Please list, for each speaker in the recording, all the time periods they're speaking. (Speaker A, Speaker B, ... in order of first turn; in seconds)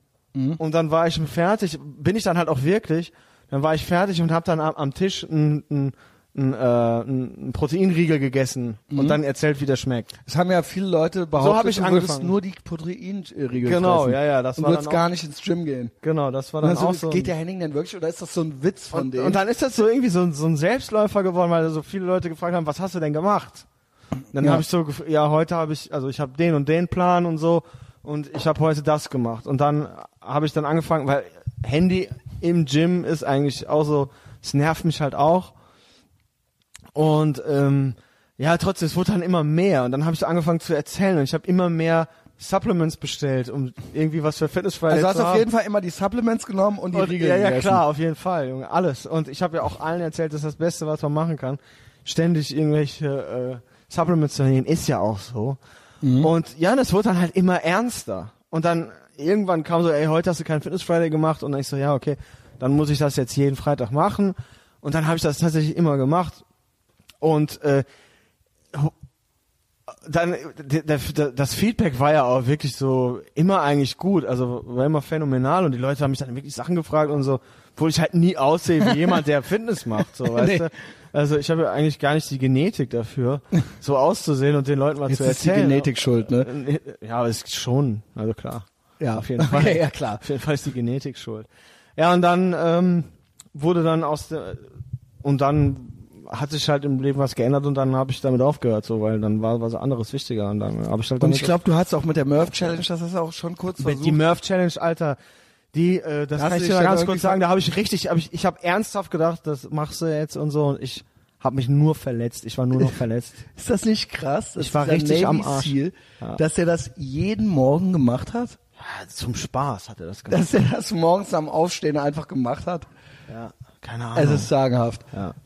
Speaker A: 0.3-0.6, 8.9-9.2, 10.3-15.9, 16.6-19.4, 24.4-24.6, 44.9-47.8, 56.0-56.3, 80.2-80.7, 85.1-86.5, 89.0-90.2, 101.2-104.2, 106.4-107.4, 113.5-118.6, 120.3-122.9, 124.2-125.1
Speaker B: 0.6-10.1, 11.4-12.3, 13.6-15.1, 16.0-17.3, 18.9-23.6, 24.3-35.5, 37.0-45.5, 46.9-55.6, 56.2-66.4, 67.2-67.9, 70.0-94.7, 95.2-101.6, 103.8-105.2, 105.7-113.4, 114.6-116.4, 118.8-120.5, 123.3-124.5